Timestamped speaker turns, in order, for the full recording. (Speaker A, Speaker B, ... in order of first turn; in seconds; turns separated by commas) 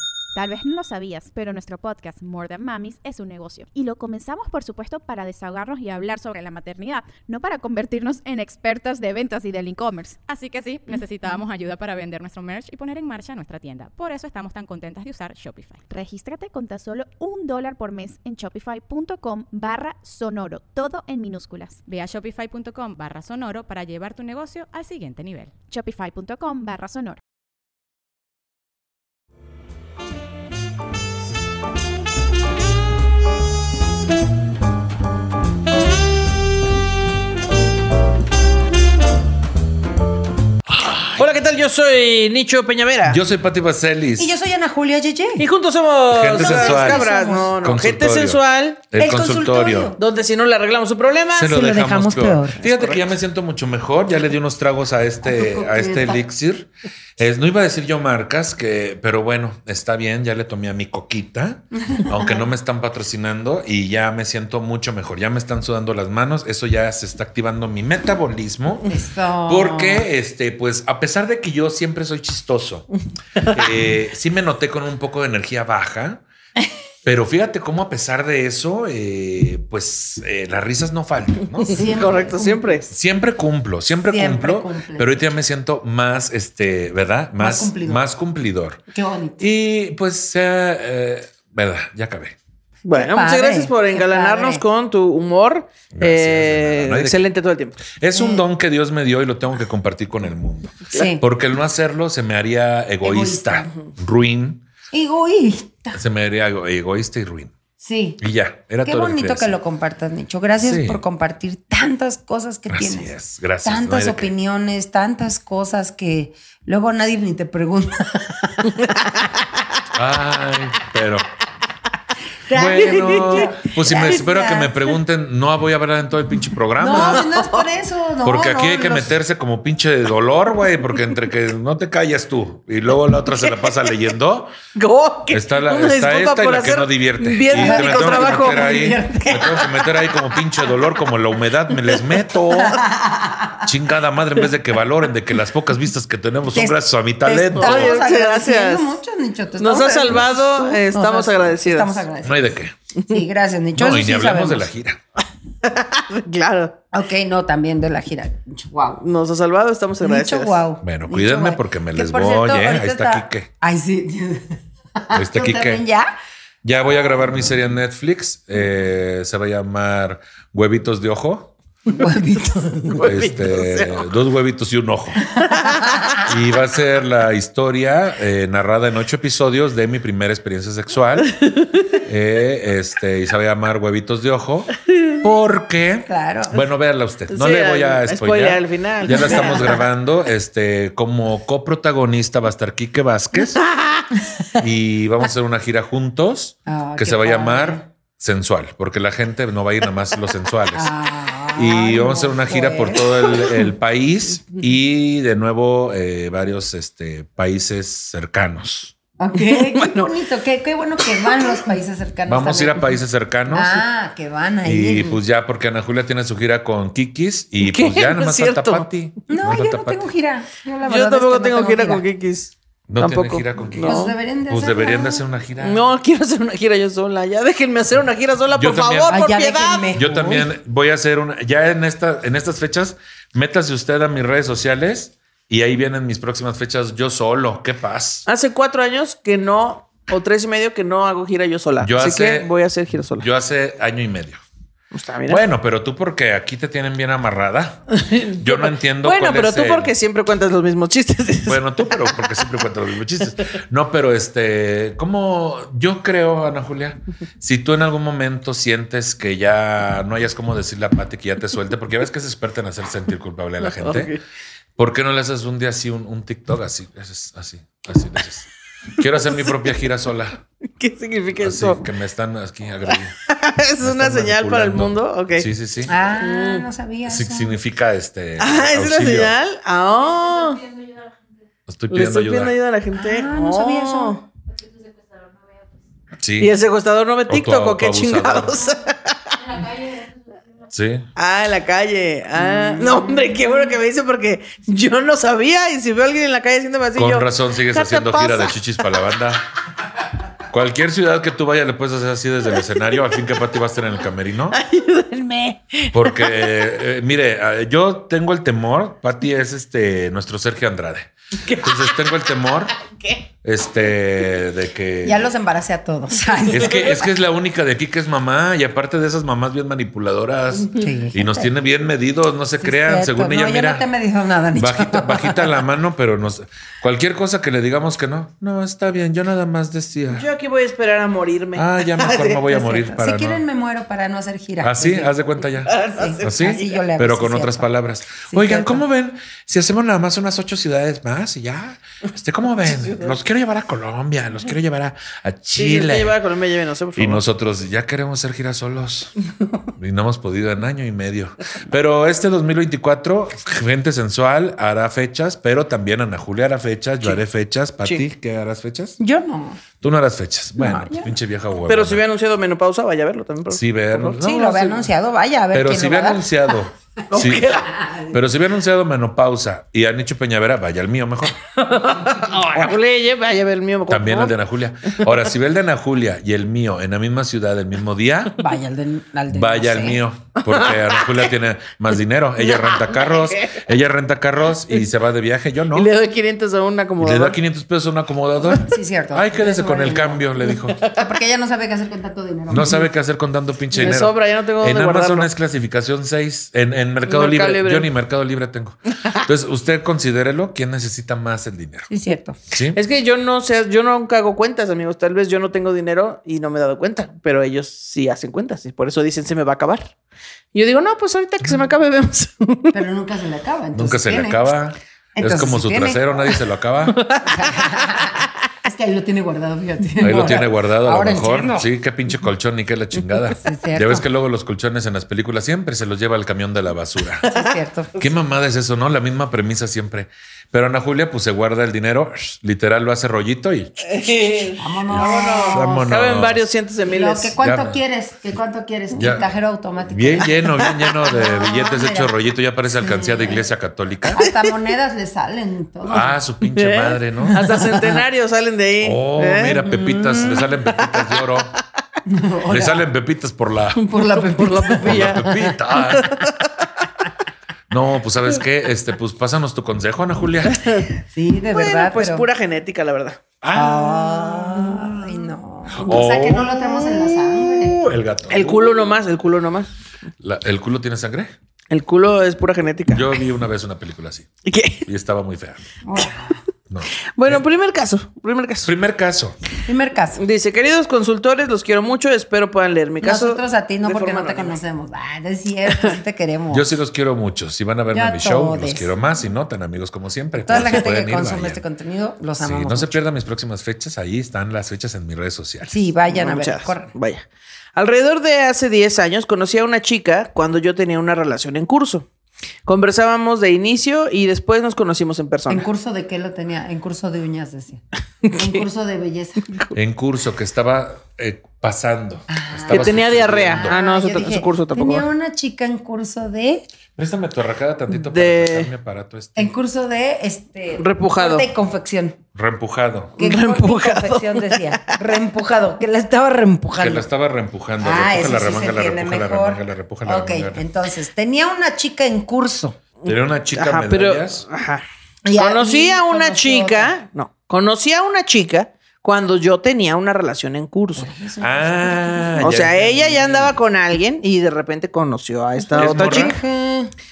Speaker A: 0.3-10.2, Speaker B: 10.2-15.8, Speaker A: 15.9-21.8, Speaker B: 21.9-25.5, Speaker A: 25.7-27.2, Speaker C: 41.1-43.2, Speaker D: 43.0-44.3, Speaker E: 44.2-45.4, Speaker C: 45.4-48.8, Speaker D: 46.1-49.9, Speaker E: 46.3-47.5, Speaker E: 49.0-50.0, Speaker C: 50.0-51.5, Speaker D: 51.3-68.9, Speaker E: 51.4-52.6, Speaker C: 52.6-53.0, Speaker E: 55.2-56.2, Speaker E: 61.8-62.5, Speaker E: 68.9-70.1, Speaker D: 69.5-72.9, Speaker D: 73.5-76.2, Speaker D: 77.0-82.2, Speaker E: 81.7-82.7, Speaker C: 81.7-82.9, Speaker D: 82.9-88.8, Speaker E: 84.1-85.2, Speaker E: 87.4-88.0, Speaker E: 88.9-89.5, Speaker D: 89.4-92.3, Speaker C: 92.8-97.8, Speaker E: 92.9-94.6, Speaker D: 95.9-97.3, Speaker D: 98.0-104.6, Speaker E: 98.2-98.4, Speaker E: 100.9-101.2, Speaker E: 103.0-103.7, Speaker E: 104.9-106.0, Speaker D: 105.9-107.5, Speaker E: 107.8-108.2, Speaker D: 108.2-109.5, Speaker E: 108.8-119.1, Speaker D: 110.6-111.0, Speaker D: 112.7-114.3, Speaker D: 119.9-121.3, Speaker E: 122.5-124.7, Speaker D: 122.5-127.3, Speaker C: 122.8-123.5, Speaker E: 126.8-129.1, Speaker C: 127.0-127.6, Speaker D: 128.2-134.6, Speaker C: 133.3-133.7, Speaker C: 134.8-138.7, Speaker D: 135.3-142.8, Speaker E: 137.5-140.0, Speaker E: 142.5-143.7, Speaker D: 143.6-148.1, Speaker E: 146.5-152.6, Speaker C: 147.5-148.9, Speaker C: 149.6-152.0, Speaker D: 152.2-152.7, Speaker E: 153.1-154.7, Speaker D: 153.8-155.0, Speaker C: 155.6-156.8, Speaker E: 156.9-159.0, Speaker C: 159.0-160.6, Speaker E: 160.0-166.1, Speaker D: 160.8-163.5, Speaker D: 165.1-165.8, Speaker D: 166.6-171.5, Speaker E: 172.0-173.1, Speaker C: 172.9-174.1, Speaker D: 173.0-175.3, Speaker C: 175.4-176.2, Speaker D: 176.2-181.3, Speaker C: 181.4-181.7, Speaker D: 182.0-193.6, Speaker E: 186.1-186.6, Speaker C: 187.3-189.8, Speaker E: 189.1-189.8, Speaker D: 194.6-200.9, Speaker E: 196.7-197.8, Speaker E: 200.7-203.0, Speaker D: 201.5-208.9, Speaker E: 209.2-212.9, Speaker C: 209.4-210.1, Speaker C: 211.1-211.6, Speaker D: 212.3-213.8, Speaker E: 213.5-215.2, Speaker D: 214.6-220.1, Speaker C: 217.6-218.8, Speaker E: 219.3-222.0, Speaker C: 220.9-224.1, Speaker D: 222.9-225.8, Speaker E: 223.8-225.2, Speaker C: 225.6-229.9, Speaker D: 228.5-229.2, Speaker E: 229.1-230.5, Speaker D: 229.9-238.2, Speaker C: 238.2-243.3, Speaker D: 241.8-242.5, Speaker D: 243.2-244.4, Speaker C: 244.9-245.4, Speaker D: 245.3-249.9, Speaker C: 247.9-252.3, Speaker D: 251.4-264.1, Speaker C: 263.6-264.2, Speaker D: 264.8-270.4, Speaker C: 270.8-271.8, Speaker D: 271.4-273.2, Speaker C: 273.3-275.5, Speaker D: 273.8-275.9, Speaker E: 275.9-277.6, Speaker C: 276.2-276.6, Speaker D: 277.1-279.3, Speaker C: 278.4-280.8, Speaker D: 281.7-282.5, Speaker C: 281.9-284.2, Speaker E: 282.9-284.2, Speaker D: 286.2-286.5, Speaker C: 286.4-289.6, Speaker D: 287.3-288.7, Speaker D: 290.7-291.1, Speaker C: 291.1-298.8, Speaker E: 292.4-293.4, Speaker D: 296.9-299.4, Speaker D: 300.5-304.6, Speaker C: 304.5-306.6, Speaker D: 305.9-312.7, Speaker C: 311.4-312.2, Speaker C: 312.9-313.2, Speaker D: 313.4-315.3, Speaker E: 315.0-316.9, Speaker D: 316.5-323.8, Speaker E: 320.8-321.5, Speaker E: 322.6-325.6, Speaker D: 324.5-330.3, Speaker C: 330.1-332.4, Speaker D: 331.6-333.4, Speaker E: 332.5-335.1, Speaker D: 334.6-346.2, Speaker C: 335.6-336.8, Speaker E: 335.9-337.7, Speaker E: 338.3-338.8, Speaker C: 342.6-343.1, Speaker C: 345.5-347.2, Speaker D: 346.9-349.1, Speaker D: 349.8-359.0, Speaker E: 359.0-359.6, Speaker D: 359.8-362.0, Speaker E: 360.6-361.1, Speaker C: 361.7-364.9, Speaker D: 363.5-364.4, Speaker E: 364.2-366.2, Speaker D: 365.5-367.5, Speaker C: 367.1-367.7, Speaker E: 367.8-368.1, Speaker D: 368.1-371.4, Speaker C: 371.5-374.3, Speaker D: 373.9-378.4, Speaker E: 378.4-380.0, Speaker D: 379.3-385.9, Speaker C: 380.4-381.3, Speaker C: 382.4-383.6, Speaker C: 385.7-387.4, Speaker D: 387.0-390.8, Speaker E: 388.6-392.9, Speaker C: 390.7-391.0, Speaker D: 392.5-401.9, Speaker C: 393.7-395.3, Speaker C: 397.1-397.9, Speaker E: 401.9-402.4, Speaker D: 402.5-402.8, Speaker C: 402.7-409.9, Speaker C: 410.5-412.7, Speaker E: 412.7-414.5, Speaker D: 413.7-417.0, Speaker E: 415.1-416.0, Speaker C: 416.9-417.6, Speaker E: 417.2-421.7, Speaker D: 420.0-427.3, Speaker C: 420.0-420.4, Speaker E: 423.4-424.1, Speaker C: 427.2-427.5, Speaker E: 427.2-427.9, Speaker D: 427.9-433.8, Speaker C: 433.8-437.3, Speaker E: 434.6-435.9, Speaker D: 434.9-436.4, Speaker E: 436.9-442.1, Speaker D: 437.4-437.8, Speaker D: 438.9-439.3, Speaker D: 439.9-444.2, Speaker E: 442.8-443.4, Speaker E: 444.1-446.1, Speaker C: 444.2-444.5, Speaker D: 445.9-447.4, Speaker C: 446.5-449.6, Speaker E: 447.3-448.0, Speaker D: 448.8-451.5, Speaker E: 449.6-450.4, Speaker E: 452.1-452.8, Speaker D: 452.5-453.9, Speaker C: 453.8-456.5, Speaker E: 453.9-455.6, Speaker D: 454.8-456.2, Speaker D: 457.7-460.6, Speaker C: 460.5-460.8, Speaker E: 461.1-462.2, Speaker C: 461.5-463.2, Speaker D: 463.4-465.1, Speaker E: 463.5-467.8, Speaker D: 465.7-468.8, Speaker C: 468.3-469.7, Speaker D: 470.2-471.3, Speaker C: 471.7-473.1, Speaker D: 472.9-474.3, Speaker C: 474.4-474.9, Speaker D: 474.9-475.6, Speaker E: 475.8-476.4, Speaker D: 476.7-477.4, Speaker C: 477.1-478.7, Speaker D: 478.6-479.4, Speaker E: 479.6-480.2, Speaker C: 480.2-484.6, Speaker E: 483.0-486.7, Speaker D: 486.5-491.6, Speaker E: 487.9-488.9, Speaker E: 490.4-493.0, Speaker C: 490.5-490.8, Speaker D: 492.4-495.7, Speaker E: 495.7-496.9, Speaker C: 496.1-497.2, Speaker C: 497.8-502.1, Speaker C: 502.6-505.7, Speaker E: 505.5-509.5, Speaker C: 508.2-508.6, Speaker D: 509.7-513.8, Speaker E: 512.3-516.6, Speaker C: 512.7-515.0, Speaker D: 517.0-519.5, Speaker C: 517.9-518.7, Speaker E: 519.4-522.2, Speaker C: 520.8-521.5, Speaker D: 522.3-523.1, Speaker E: 523.2-527.0, Speaker C: 523.2-525.0, Speaker D: 526.8-530.6, Speaker E: 527.8-532.8, Speaker C: 533.0-534.8, Speaker D: 533.0-534.4, Speaker E: 535.2-536.9, Speaker C: 535.4-541.1, Speaker E: 541.0-542.5, Speaker D: 541.4-543.6, Speaker C: 542.4-546.4, Speaker E: 545.6-546.9, Speaker D: 545.8-546.4